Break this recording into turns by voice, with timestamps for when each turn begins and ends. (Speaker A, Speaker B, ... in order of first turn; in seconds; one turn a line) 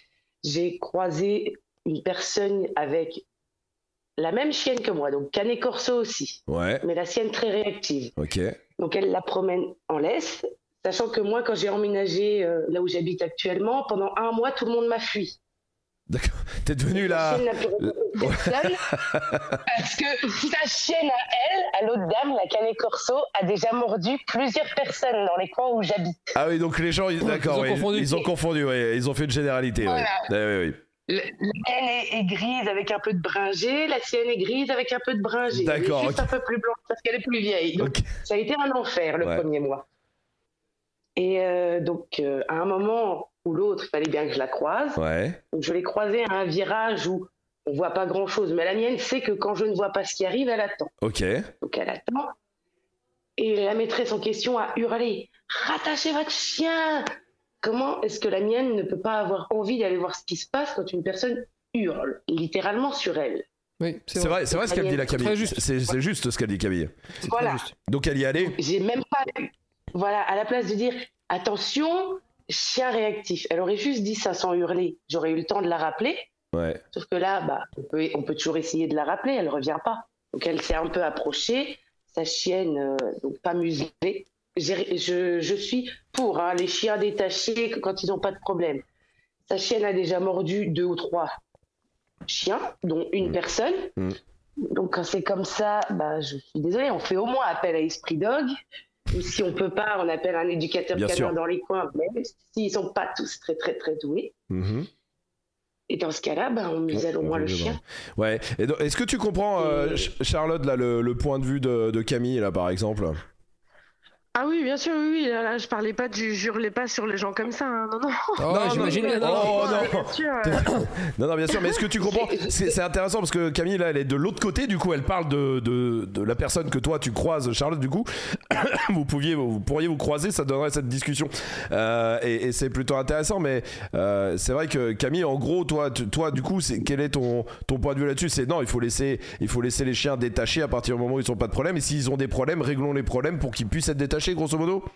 Speaker A: 0.4-3.2
Speaker A: 4.2-8.1
Speaker B: 6.5-6.8
Speaker B: 8.2-8.6
Speaker A: 8.8-15.4
Speaker B: 16.1-19.6
Speaker A: 16.9-26.4
Speaker B: 26.3-30.8
Speaker C: 27.2-28.3
Speaker A: 29.8-30.3
Speaker A: 31.1-39.8
Speaker B: 35.5-36.3
Speaker B: 37.8-38.1
Speaker A: 41.2-45.0
Speaker B: 45.0-45.4
Speaker A: 45.5-50.9
Speaker B: 51.0-51.5
Speaker A: 51.6-52.3
Speaker A: 53.4-57.1
Speaker A: 57.6-63.5
Speaker C: 63.8-65.6
Speaker B: 64.2-67.0
Speaker A: 64.5-65.3
Speaker C: 67.2-67.7
Speaker A: 67.2-67.7
Speaker B: 67.8-68.6
Speaker A: 68.5-76.3
Speaker B: 76.5-76.8
Speaker A: 76.9-88.8
Speaker A: 89.5-91.3
Speaker A: 92.3-93.9
Speaker A: 94.7-98.5
Speaker A: 99.1-104.3
Speaker B: 100.9-101.3
Speaker B: 104.5-104.9
Speaker A: 105.9-107.8
Speaker B: 106.9-113.2
Speaker A: 109.6-110.1
Speaker D: 114.4-120.8
Speaker C: 118.4-119.9
Speaker B: 118.5-144.9
Speaker A: 122.0-122.7